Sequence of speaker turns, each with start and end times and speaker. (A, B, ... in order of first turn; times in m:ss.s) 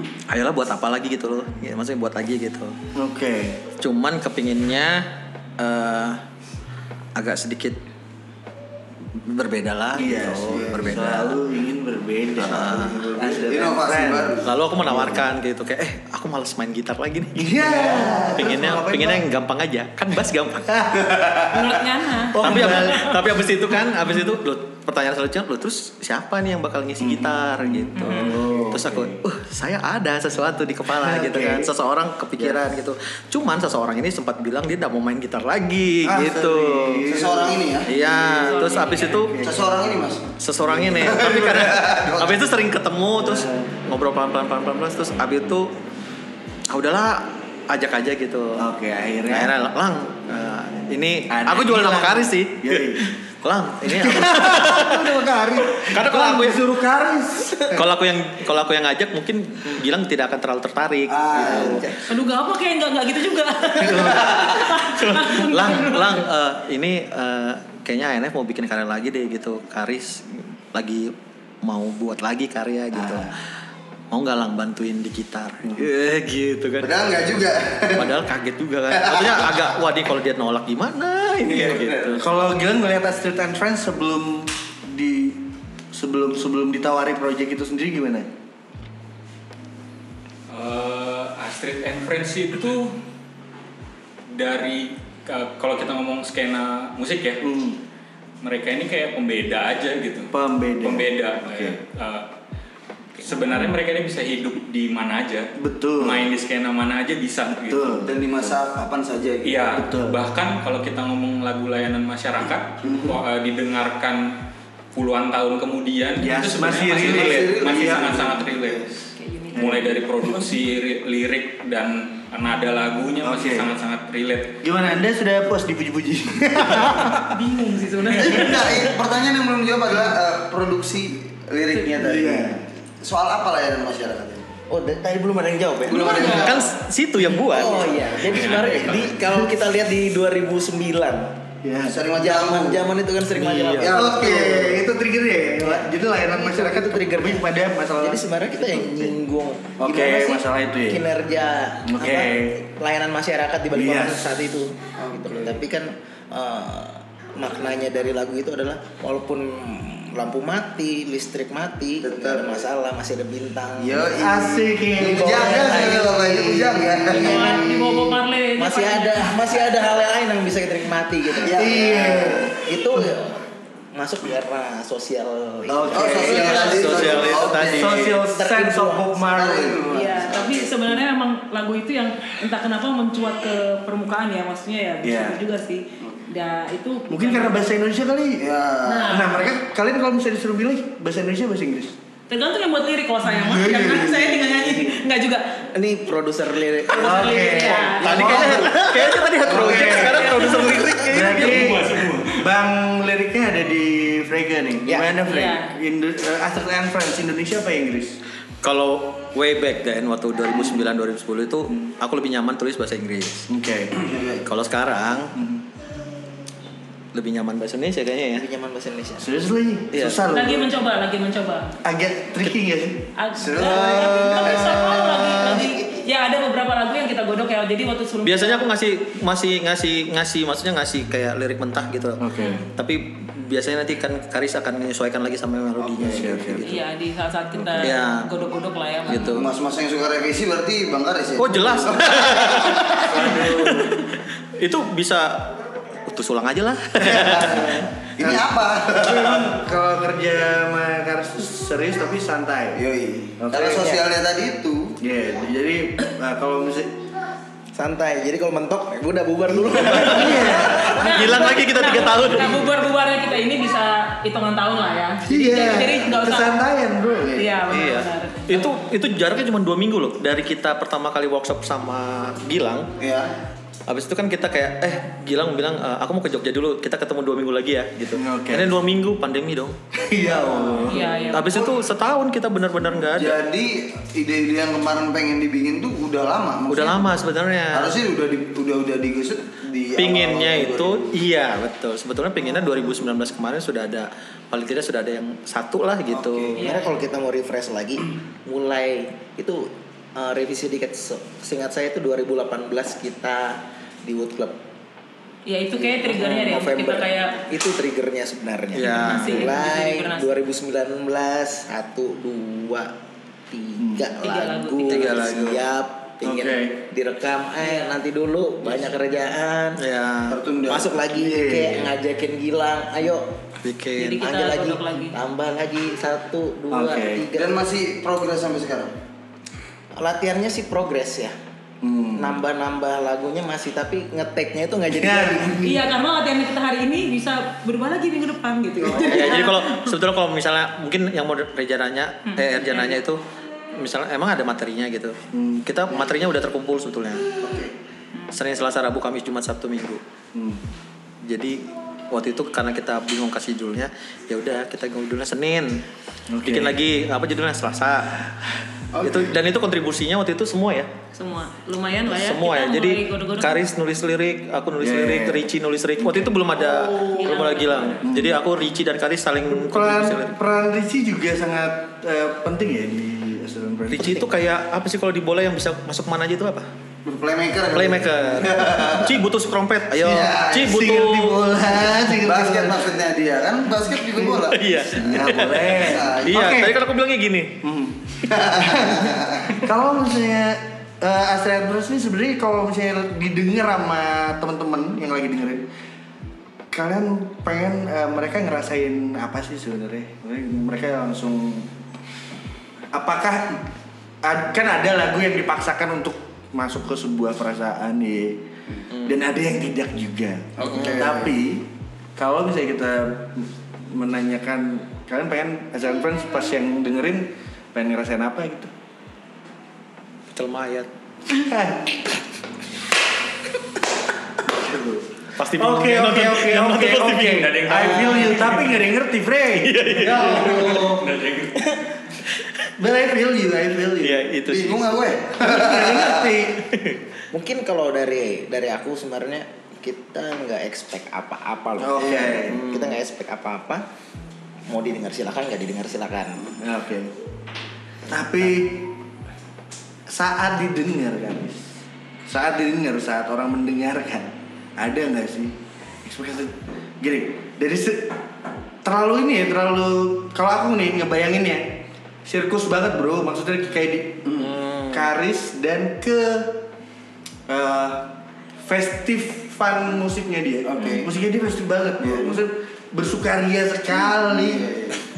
0:00.3-0:02.8 A
0:02.9-0:03.6 B
0:03.8-0:05.0 A
0:05.6-0:06.2 A
0:07.2-0:07.8 A
0:09.2-0:11.4 A
0:09.9-0:15.2 B
0:10.1-0:10.9 C
0:12.4-0:14.6 C
0:12.4-0:13.1 A
0:14.4-0:17.6 A
0:17.4-0:19.2 B
0:17.6-0:18.5 C
0:18.3-0:20.9 A
0:21.5-0:23.1 D
0:22.3-0:23.2 B
0:22.4-0:37.0 A
0:27.0-0:29.2 B
0:28.0-0:28.4 D
0:30.9-0:31.7 B
0:36.0-0:38.5 B
0:37.1-0:37.9 C
0:37.9-0:39.4 A
0:38.3-0:39.3 D
0:39.2-0:39.9 B
0:39.4-0:40.3 C
0:40.4-0:45.7 A
0:40.6-0:41.4 B
0:40.9-0:42.4 C
0:43.2-0:43.7 B
0:46.7-0:48.6 A
0:48.6-0:49.5 B
0:49.3-0:56.6 A
0:51.3-0:53.1 B
0:53.8-0:57.8 B
0:57.6-1:01.9 A
1:01.1-1:01.9 C
1:01.4-1:01.9 B
1:02.0-1:06.2 D
1:03.8-1:04.3 B
1:03.9-1:13.4 A
1:12.9-1:13.3 B
1:14.1-1:16.9 A
1:16.8-1:18.2 C
1:17.9-1:22.2 A
1:18.9-1:19.7 C
1:21.4-1:22.2 C
1:22.2-1:28.3 B
1:30.5-1:33.0 E
1:34.3-1:37.5 E
1:37.4-1:37.8 B
1:38.4-1:40.3 E
1:40.3-1:41.8 B
1:40.8-1:42.3 E
1:43.2-1:48.0 E
1:45.6-1:46.3 B
1:47.6-1:48.1 B
1:48.0-1:49.7 C
1:49.4-1:54.4 E
1:49.7-1:50.2 B
1:52.8-1:53.2 B
1:54.9-1:58.9 E
1:56.2-1:58.4 B
1:56.9-1:58.9 C
1:59.1-1:59.7 D
1:59.5-2:00.4 B
1:59.5-2:04.6 E
2:03.2-2:03.7 B
2:04.6-2:07.3 B
2:07.0-2:08.8 D
2:08.1-2:14.5 C
2:11.8-2:12.6 B
2:14.7-2:16.4 F
2:15.9-2:16.7 C
2:15.9-2:16.7 D
2:16.3-2:17.8 A
2:17.4-2:21.4 F
2:18.2-2:19.2 E
2:21.6-2:22.0 B
2:21.8-2:22.9 C
2:22.2-2:24.4 F
2:23.4-2:23.9 A
2:23.8-2:24.8 C
2:23.9-2:29.1 B
2:25.6-2:44.0 F
2:29.8-2:31.0 B
2:31.8-2:32.6 B
2:33.7-2:34.4 B
2:35.0-2:35.6 C
2:42.0-2:42.6 C
2:43.8-2:47.7 C
2:44.1-2:46.9 B
2:45.4-2:47.7 F
2:47.1-2:49.4 D
2:48.6-2:53.4 F
2:51.4-2:52.2 C
2:51.4-2:53.1 B
2:53.9-2:56.6 F
2:55.7-2:59.9 B
2:55.9-2:58.2 C
2:56.5-2:58.1 A
2:58.3-2:59.2 F
2:59.2-3:00.7 C
2:59.9-3:07.6 D
3:05.0-3:05.4 B
3:07.1-3:08.4 B
3:08.4-3:09.2 C
3:08.8-3:09.3 D
3:09.1-3:11.9 B
3:12.3-3:15.5 D
3:13.2-3:14.3 B
3:14.3-3:15.0 F
3:15.7-3:19.2 F
3:16.9-3:18.4 D
3:17.0-3:20.5 B
3:18.0-3:21.9 A
3:18.2-3:18.7 C
3:19.8-3:20.9 F
3:20.2-3:20.9 D
3:21.0-3:28.2 B
3:21.2-3:22.4 E
3:24.8-3:25.1 F
3:25.2-3:25.7 D
3:28.6-3:33.5 A
3:33.5-3:34.0 B
3:34.0-3:34.4 C
3:34.4-3:35.3 A
3:35.4-3:35.6 B
3:37.1-3:38.5 A
3:38.3-3:39.3 F
3:39.2-3:40.7 B
3:39.9-3:40.2 A
3:40.3-3:41.7 D
3:41.8-3:43.0 B
3:43.2-3:48.7 D
3:43.4-3:45.8 C
3:43.6-3:44.7 B
3:48.2-3:52.2 A
3:52.2-3:52.6 B
3:52.8-3:56.8 A
3:55.8-3:56.5 C
3:55.9-3:56.8 B
3:56.6-3:59.4 D
3:57.6-3:57.9 B
3:57.8-3:58.3 A
3:59.1-3:59.5 A
3:59.2-4:03.3 C
4:01.4-4:07.8 A
4:03.0-4:04.0 B
4:07.0-4:12.8 B
4:08.2-4:09.5 C
4:12.7-4:15.0 C
4:13.4-4:14.0 B
4:15.0-4:17.0 B
4:17.7-4:21.1 F
4:19.8-4:21.0 B
4:19.9-4:22.6 A
4:20.6-4:26.6 D
4:25.2-4:27.5 B
4:27.2-4:28.7 D
4:27.6-4:32.9 A
4:33.0-4:33.3 C
4:33.9-4:39.8 A
4:38.1-4:38.8 B
4:40.0-4:41.7 C
4:40.1-4:41.1 B
4:40.8-4:41.6 D
4:41.3-4:43.4 A
4:43.1-4:51.1 C
4:46.7-4:47.9 A
4:50.0-4:56.6 A
4:56.1-4:56.6 C
4:56.6-4:56.9 D
4:56.6-5:04.6 F
5:05.5-5:07.4 D
5:05.7-5:12.9 F
5:08.7-5:09.5 A
5:08.9-5:10.3 D
5:13.5-5:19.8 F
5:13.8-5:14.1 B
5:14.2-5:15.3 D
5:14.8-5:15.6 A
5:16.2-5:16.8 B
5:19.8-5:20.4 A
5:20.3-5:20.9 C
5:20.7-5:23.3 F
5:21.1-5:21.9 B
5:23.6-5:24.2 A
5:24.0-5:25.2 D
5:24.2-5:27.6 F
5:26.7-5:27.2 B
5:27.3-5:28.9 C
5:29.9-5:31.3 F
5:31.8-5:32.4 B
5:32.2-5:35.6 F
5:34.9-5:35.8 B
5:35.6-5:40.0 D
5:38.9-5:43.2 A
5:42.2-5:42.9 D
5:43.7-5:47.2 A
5:45.3-5:46.0 B
5:47.4-5:47.7 C
5:48.3-5:50.0 A
5:50.3-5:50.6 B
5:51.2-5:55.8 A
5:56.3-5:56.8 B
5:56.4-5:58.1 A
5:58.9-5:59.4 C
5:59.0-6:00.9 A
6:01.1-6:03.6 D
6:02.0-6:10.3 A
6:04.8-6:07.3 B
6:07.1-6:08.0 D
6:08.0-6:08.4 B
6:09.5-6:14.3 B
6:13.9-6:16.7 A
6:17.0-6:19.2 C
6:17.7-6:21.4 A
6:19.9-6:20.7 C
6:20.5-6:23.0 B
6:22.1-6:26.5 C
6:24.4-6:25.7 A
6:24.9-6:26.8 B
6:26.2-6:27.6 A
6:27.6-6:35.6 B
6:28.3-6:29.6 C
6:36.7-6:41.7 B
6:42.9-6:43.6 B
6:44.2-6:48.4 B
6:49.0-6:58.7 B
6:50.6-6:51.3 C
6:50.6-6:51.0 A
7:00.3-7:00.9 A
7:01.3-7:02.0 B
7:04.4-7:11.0 B
7:05.4-7:08.0 A
7:07.3-7:08.7 E
7:09.6-7:10.9 A
7:10.0-7:11.0 C
7:10.7-7:11.7 E
7:12.3-7:12.7 A
7:12.8-7:14.3 B
7:14.0-7:15.0 A
7:14.5-7:16.3 C
7:15.4-7:16.7 B
7:16.7-7:17.0 A
7:17.3-7:23.8 F
7:21.8-7:22.6 B
7:22.5-7:23.0 A
7:24.7-7:26.4 F
7:26.6-7:27.1 B
7:28.1-7:28.9 B
7:30.1-7:31.7 B
7:32.2-7:38.1 B
7:38.8-7:44.3 B
7:44.2-7:44.5 C
7:44.4-7:45.1 A
7:44.9-7:46.6 B
7:47.5-7:48.1 B
7:48.7-7:54.7 B
7:50.6-7:51.1 C
7:52.0-7:52.4 C
7:54.0-7:55.0 C